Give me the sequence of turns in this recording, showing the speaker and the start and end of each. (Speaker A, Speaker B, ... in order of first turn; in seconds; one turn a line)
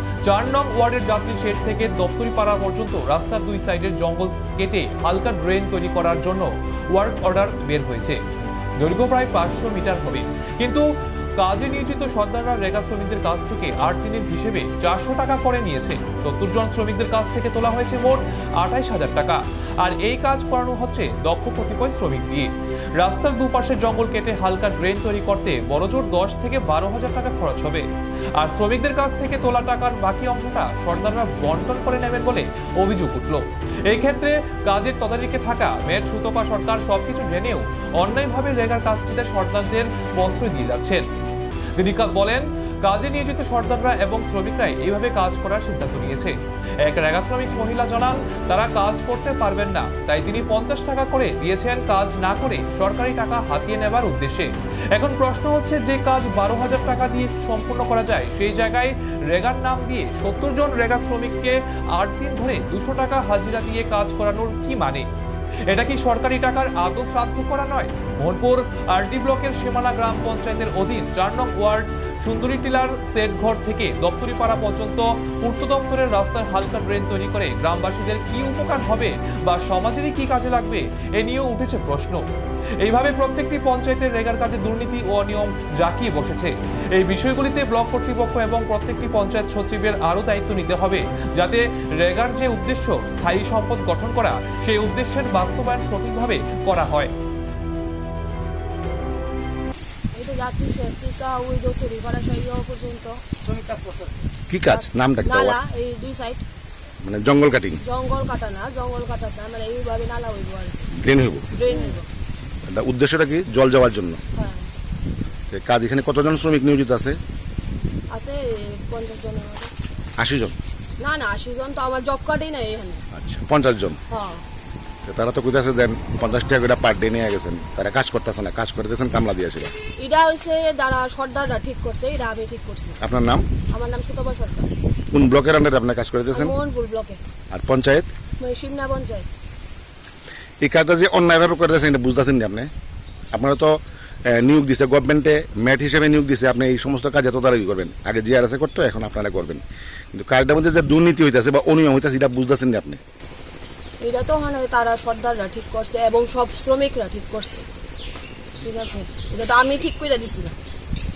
Speaker A: 0.2-8.2
Speaker A: 8.8-10.9
Speaker A: 11.4-41.0
Speaker A: 41.8-65.1
Speaker A: 65.7-82.2
Speaker A: 82.8-97.1
Speaker B: 100.1-103.2
Speaker C: 104.5-105.6
Speaker B: 104.7-106.5
Speaker C: 107.0-107.8
Speaker B: 107.8-110.9
Speaker C: 110.9-111.5
Speaker B: 111.5-112.0
Speaker C: 112.7-114.2
Speaker B: 114.4-114.7
Speaker C: 115.5-117.2
Speaker B: 118.1-119.7
Speaker C: 120.2-120.5
Speaker B: 121.0-123.0
Speaker C: 123.1-124.0
Speaker B: 124.1-124.5
Speaker C: 125.0-129.7
Speaker B: 130.0-133.0
Speaker C: 133.0-133.5
Speaker B: 133.7-134.7
Speaker C: 135.1-136.6
Speaker B: 136.3-137.2
Speaker C: 137.5-138.1
Speaker B: 138.4-139.3
Speaker C: 140.6-142.7
Speaker C: 143.3-143.7
Speaker C: 144.3-149.6
Speaker C: 150.1-153.0
Speaker B: 154.0-157.7
Speaker B: 158.6-160.6